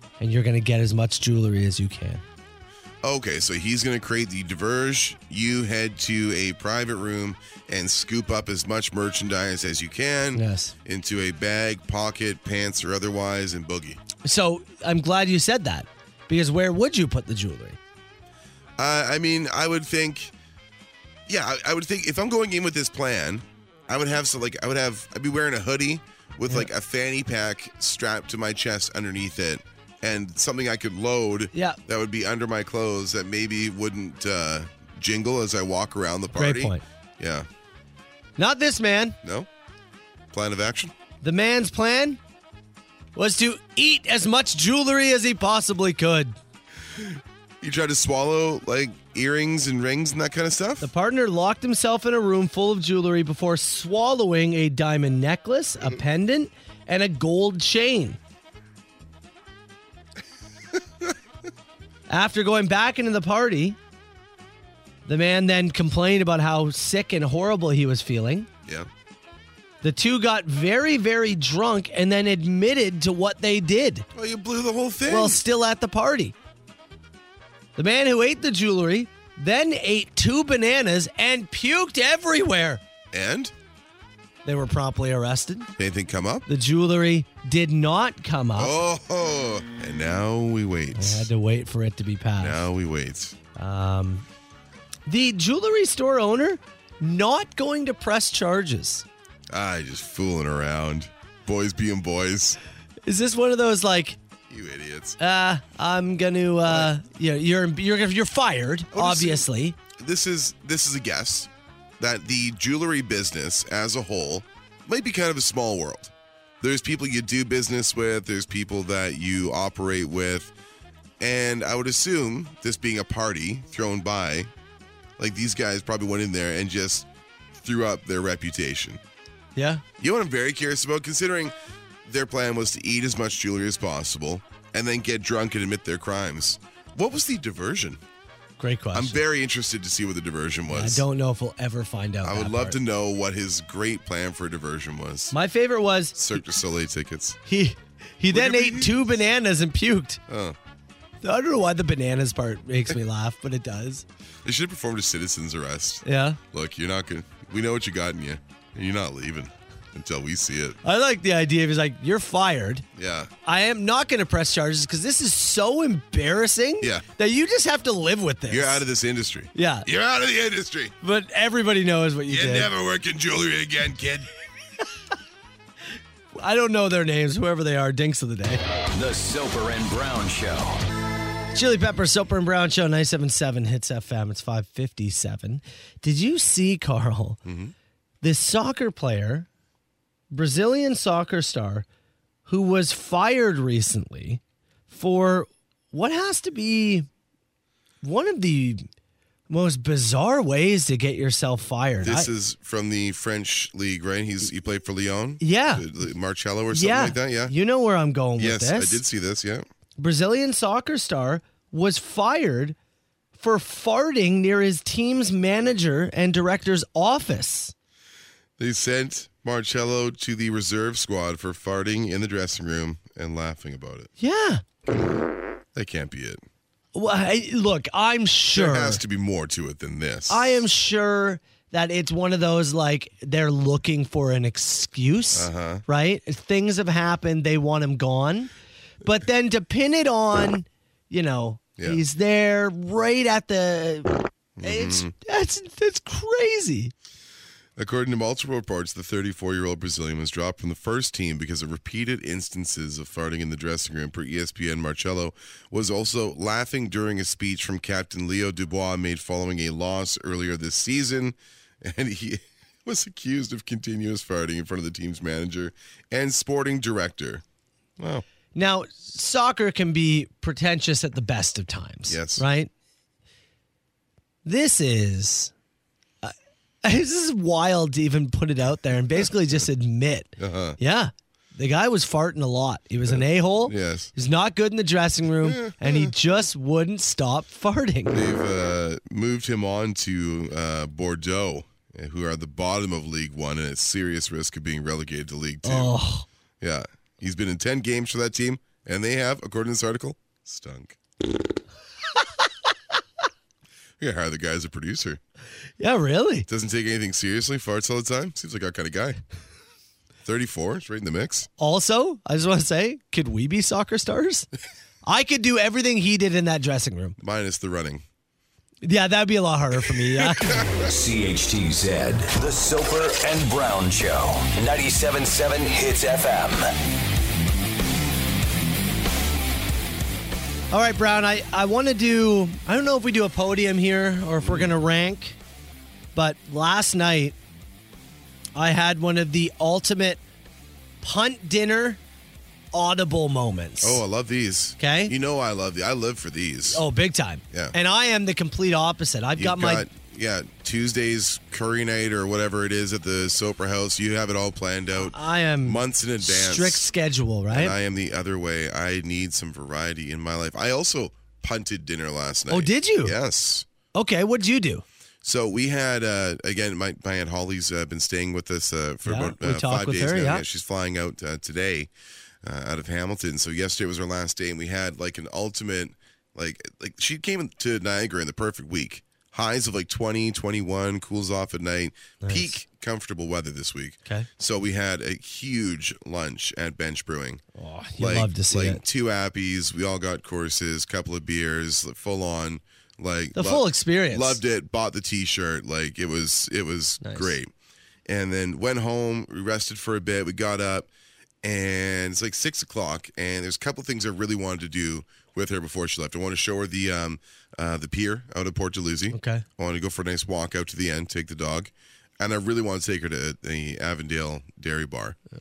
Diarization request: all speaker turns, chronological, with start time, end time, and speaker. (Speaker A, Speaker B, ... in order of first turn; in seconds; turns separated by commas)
Speaker A: 0.2-2.2, Speaker B: 3.0-14.0, Speaker A: 10.3-10.7, Speaker A: 14.2-17.8, Speaker B: 18.8-20.3, Speaker B: 21.3-37.5, Speaker A: 31.5-31.8, Speaker A: 36.3-36.8, Speaker A: 38.4-39.2, Speaker B: 39.2-39.5, Speaker B: 40.3-40.9, Speaker A: 41.2-42.2, Speaker A: 43.1-46.4, Speaker B: 46.9-50.9, Speaker A: 50.8-58.2, Speaker A: 62.1-63.8, Speaker A: 65.0-68.5, Speaker A: 69.8-74.0, Speaker B: 74.1-75.4, Speaker A: 75.1-76.3, Speaker A: 77.8-82.8, Speaker B: 83.1-83.5, Speaker A: 84.4-85.7, Speaker B: 85.8-86.5, Speaker A: 86.5-88.8, Speaker B: 88.6-91.3, Speaker A: 90.9-92.6, Speaker B: 92.4-93.3, Speaker A: 93.5-94.2, Speaker A: 95.1-99.0, Speaker B: 99.5-102.6, Speaker A: 103.0-104.2, Speaker B: 104.5-105.2, Speaker A: 105.2-109.8, Speaker B: 106.7-106.9, Speaker B: 108.9-120.5, Speaker B: 121.2-124.5, Speaker B: 125.2-129.0, Speaker A: 129.6-129.8, Speaker B: 130.0-131.5, Speaker B: 132.0-138.0, Speaker A: 138.6-139.2, Speaker B: 138.9-141.0, Speaker A: 140.7-142.8, Speaker B: 142.2-145.3, Speaker A: 145.3-146.2, Speaker B: 146.2-147.4, Speaker A: 147.4-150.2, Speaker B: 148.3-149.2, Speaker B: 150.3-150.6, Speaker A: 151.2-154.0, Speaker B: 154.4-160.8, Speaker A: 156.0-156.4, Speaker A: 160.8-162.8, Speaker B: 162.9-163.3, Speaker A: 163.4-168.8, Speaker B: 168.5-170.9, Speaker A: 169.5-169.9, Speaker A: 171.0-172.7, Speaker B: 172.3-174.3, Speaker A: 176.3-178.6, Speaker C: 178.9-180.8, Speaker A: 181.5-187.4, Speaker B: 187.4-187.7, Speaker A: 188.2-189.5, Speaker A: 190.3-191.8, Speaker A: 192.4-197.1, Speaker A: 198.0-198.9, Speaker A: 199.5-202.3, Speaker B: 202.0-207.5, Speaker A: 205.4-205.8, Speaker A: 206.7-209.0, Speaker B: 208.4-209.7, Speaker A: 210.0-212.8, Speaker A: 213.4-217.7, Speaker B: 218.6-224.1, Speaker A: 224.2-224.6, Speaker B: 224.8-226.4, Speaker A: 226.9-229.0, Speaker B: 228.5-230.6, Speaker A: 230.3-238.5, Speaker B: 235.3-235.8, Speaker A: 239.0-246.9, Speaker B: 244.6-245.1, Speaker B: 247.8-267.4, Speaker B: 268.0-268.2, Speaker A: 268.5-272.7, Speaker B: 272.1-272.4, Speaker A: 274.4-275.5, Speaker A: 276.2-288.2, Speaker B: 280.4-280.8, Speaker B: 283.1-284.1, Speaker B: 285.4-286.1, Speaker B: 288.1-295.9, Speaker A: 295.6-296.2, Speaker B: 296.6-301.0, Speaker B: 304.0-305.2, Speaker A: 305.8-306.5, Speaker B: 306.5-309.2, Speaker B: 310.2-311.5, Speaker A: 311.6-314.5, Speaker A: 315.0-317.2, Speaker B: 317.2-318.0, Speaker A: 318.8-320.6, Speaker B: 320.1-320.9, Speaker C: 320.8-326.7, Speaker A: 330.7-335.4, Speaker B: 334.4-334.7, Speaker A: 336.1-337.4, Speaker A: 338.5-340.2, Speaker A: 341.0-342.0, Speaker A: 342.7-344.0, Speaker B: 343.8-346.8, Speaker A: 344.8-345.1, Speaker A: 346.7-349.9, Speaker B: 349.4-356.9, Speaker A: 354.9-357.7, Speaker B: 357.5-363.6, Speaker A: 362.5-363.1, Speaker A: 363.9-364.8, Speaker B: 365.2-371.9, Speaker A: 369.0-370.4, Speaker B: 372.4-387.4, Speaker A: 382.2-382.6, Speaker A: 387.5-388.8, Speaker B: 388.0-397.5, Speaker A: 393.4-394.4, Speaker A: 397.0-397.3, Speaker B: 398.1-400.9, Speaker B: 401.4-415.1, Speaker A: 409.1-409.4